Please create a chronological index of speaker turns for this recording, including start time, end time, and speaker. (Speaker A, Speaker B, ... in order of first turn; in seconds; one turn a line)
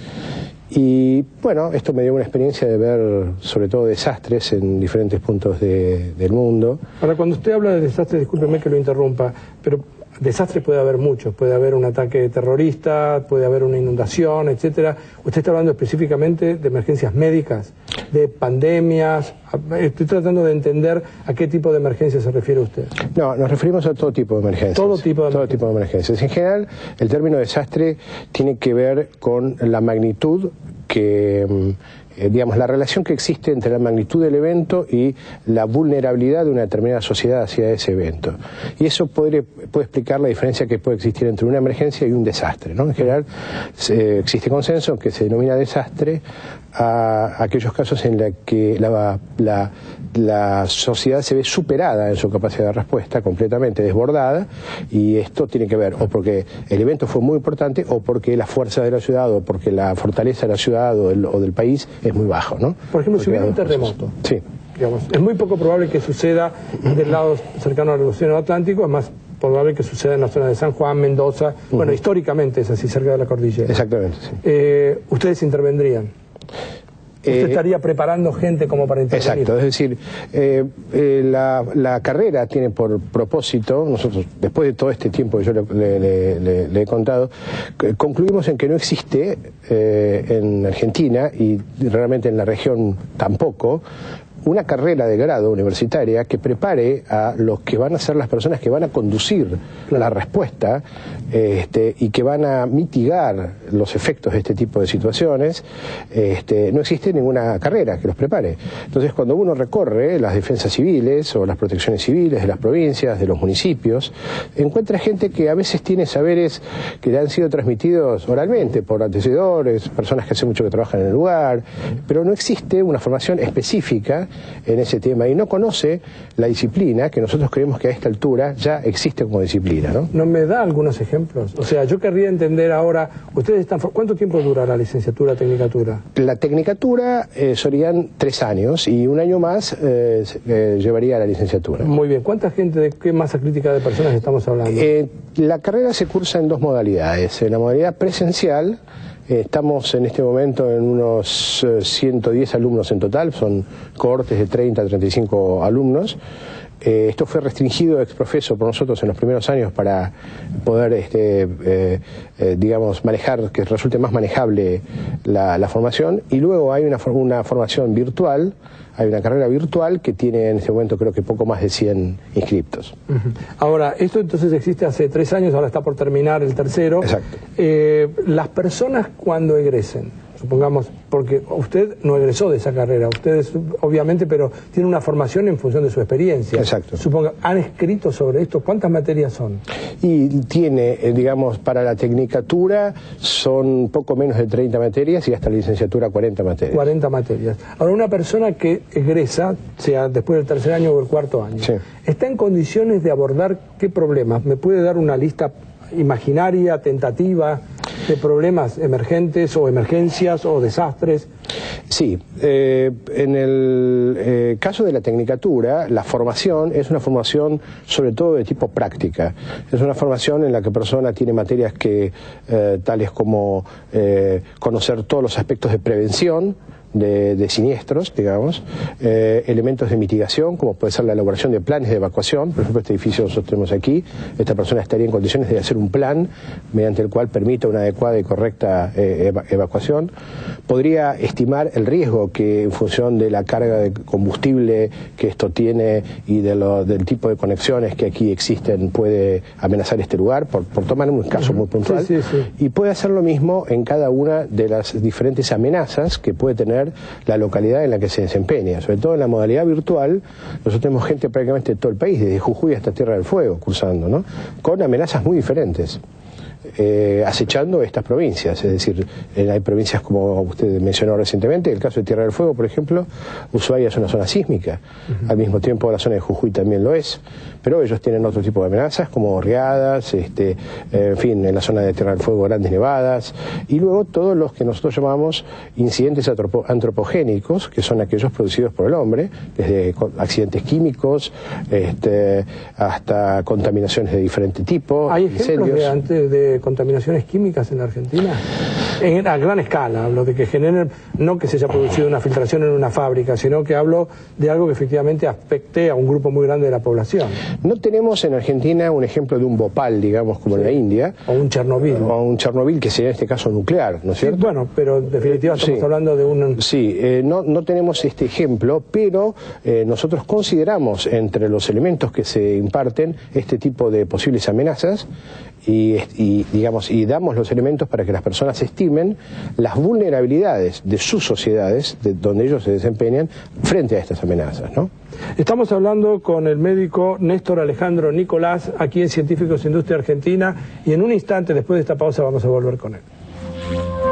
Speaker A: 0.7-6.8
Speaker B: 7.0-22.9
Speaker A: 23.1-46.2
Speaker B: 24.8-25.5
Speaker A: 46.7-64.4
Speaker B: 62.9-64.1
Speaker B: 64.8-73.8
Speaker A: 73.7-74.4
Speaker B: 74.4-76.1
Speaker A: 77.2-77.6
Speaker B: 77.3-79.5
Speaker A: 79.1-93.8
Speaker A: 94.4-130.1
Speaker B: 130.1-136.0
Speaker A: 136.2-141.9
Speaker B: 141.8-144.9
Speaker A: 144.7-156.2
Speaker A: 156.8-160.1
Speaker A: 160.6-172.9
Speaker B: 173.1-189.6
Speaker A: 177.0-177.3
Speaker A: 186.6-187.0
Speaker A: 190.0-196.8
Speaker B: 196.7-211.3
Speaker A: 211.9-240.1
Speaker A: 240.7-266.0
Speaker B: 251.8-252.5
Speaker A: 266.8-295.9
Speaker B: 295.1-298.4
Speaker B: 299.0-307.4
Speaker A: 307.6-311.2
Speaker B: 311.3-312.1
Speaker A: 311.9-314.4
Speaker B: 314.2-316.6
Speaker A: 315.5-315.9
Speaker A: 316.6-325.1
Speaker A: 325.6-334.9
Speaker B: 335.4-343.0